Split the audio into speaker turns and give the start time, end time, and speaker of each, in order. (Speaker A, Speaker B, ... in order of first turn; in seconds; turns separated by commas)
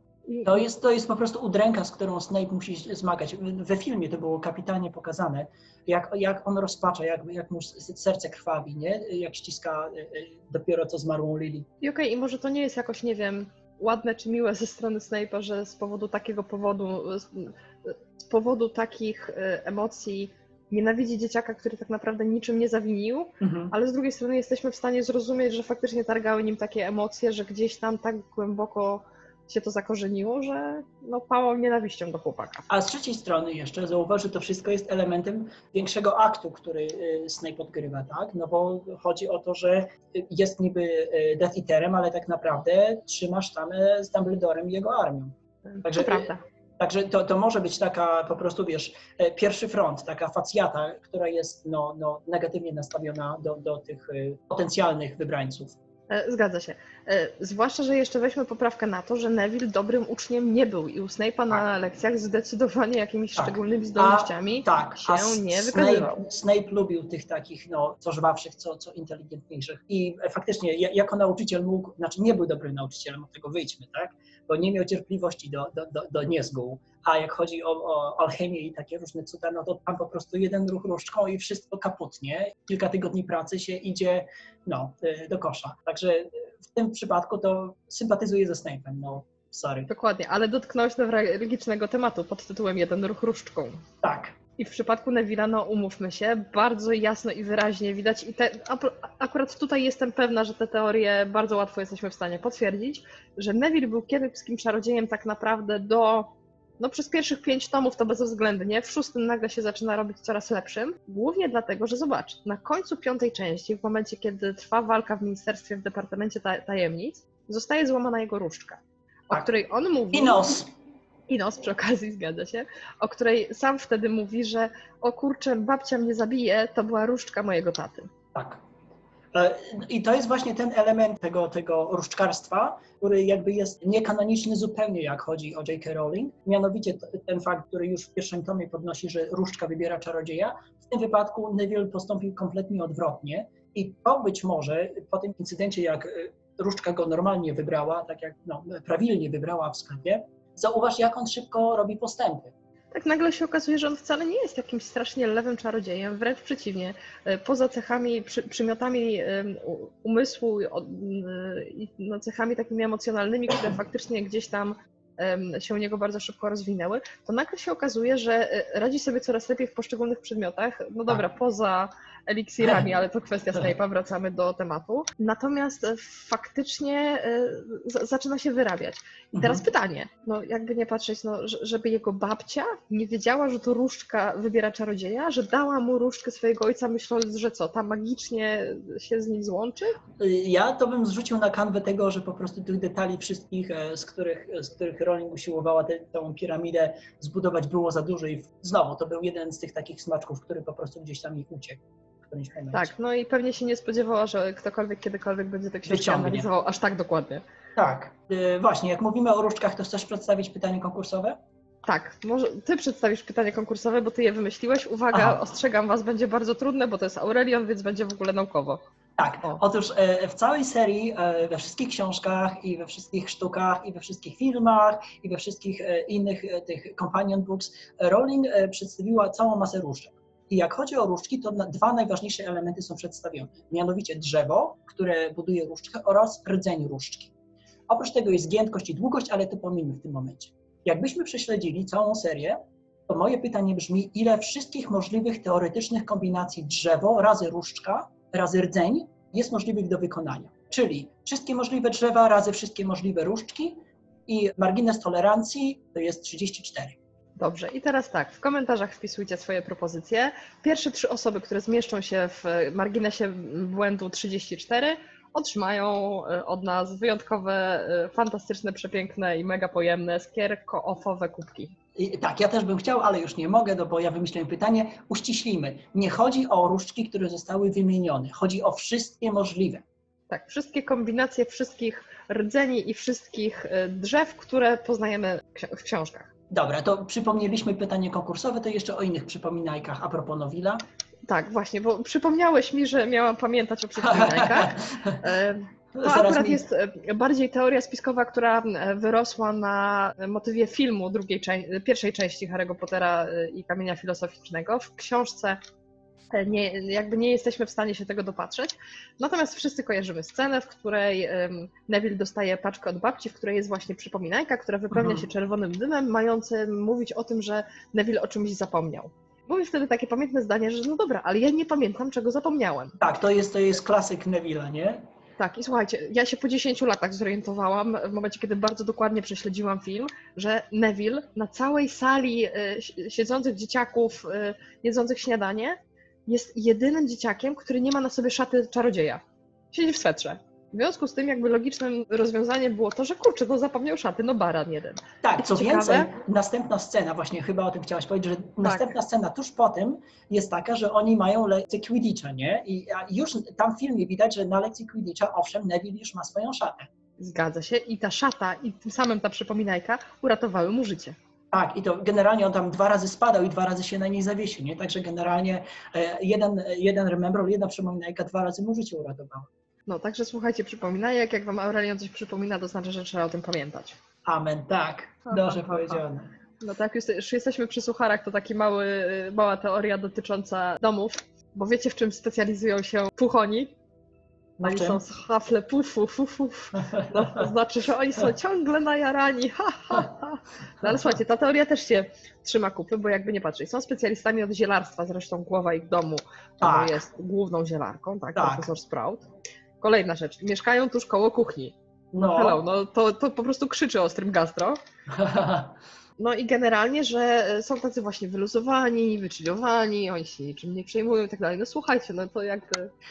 Speaker A: 0.3-0.6, Speaker B: 0.4-11.7, Speaker A: 11.8-32.7, Speaker B: 23.4-23.7, Speaker B: 32.7-55.8, Speaker A: 45.7-46.4, Speaker A: 56.1-66.2, Speaker B: 63.4-89.9, Speaker A: 89.9-93.8, Speaker B: 94.0-94.4, Speaker A: 94.6-120.6, Speaker B: 120.1-120.7, Speaker A: 121.3-128.1, Speaker B: 128.3-128.6, Speaker B: 129.3-152.5, Speaker A: 152.9-190.0, Speaker B: 179.3-179.6, Speaker B: 190.2-202.9, Speaker A: 202.7-207.4, Speaker B: 205.8-206.5, Speaker B: 207.8-211.4, Speaker A: 211.8-218.8, Speaker B: 215.1-215.4, Speaker B: 219.2-237.3, Speaker B: 237.9-257.0, Speaker A: 257.4-271.7, Speaker B: 271.9-279.8, Speaker A: 280.3-286.3, Speaker B: 286.5-290.8, Speaker A: 291.3-305.6, Speaker B: 294.0-295.2, Speaker B: 295.9-296.6, Speaker A: 306.3-323.0, Speaker B: 314.9-315.3, Speaker B: 323.0-325.0, Speaker A: 325.4-346.1, Speaker B: 345.2-356.9, Speaker A: 348.6-348.9, Speaker A: 357.2-361.1, Speaker B: 361.5-369.5, Speaker A: 369.9-374.0, Speaker B: 374.2-376.3, Speaker A: 375.3-376.0, Speaker A: 376.6-383.7, Speaker B: 384.6-385.0, Speaker A: 384.6-399.3, Speaker B: 387.0-387.4, Speaker B: 396.6-397.0, Speaker B: 398.3-398.7, Speaker A: 399.8-404.8, Speaker B: 402.1-402.6, Speaker B: 405.1-405.8, Speaker A: 406.2-412.9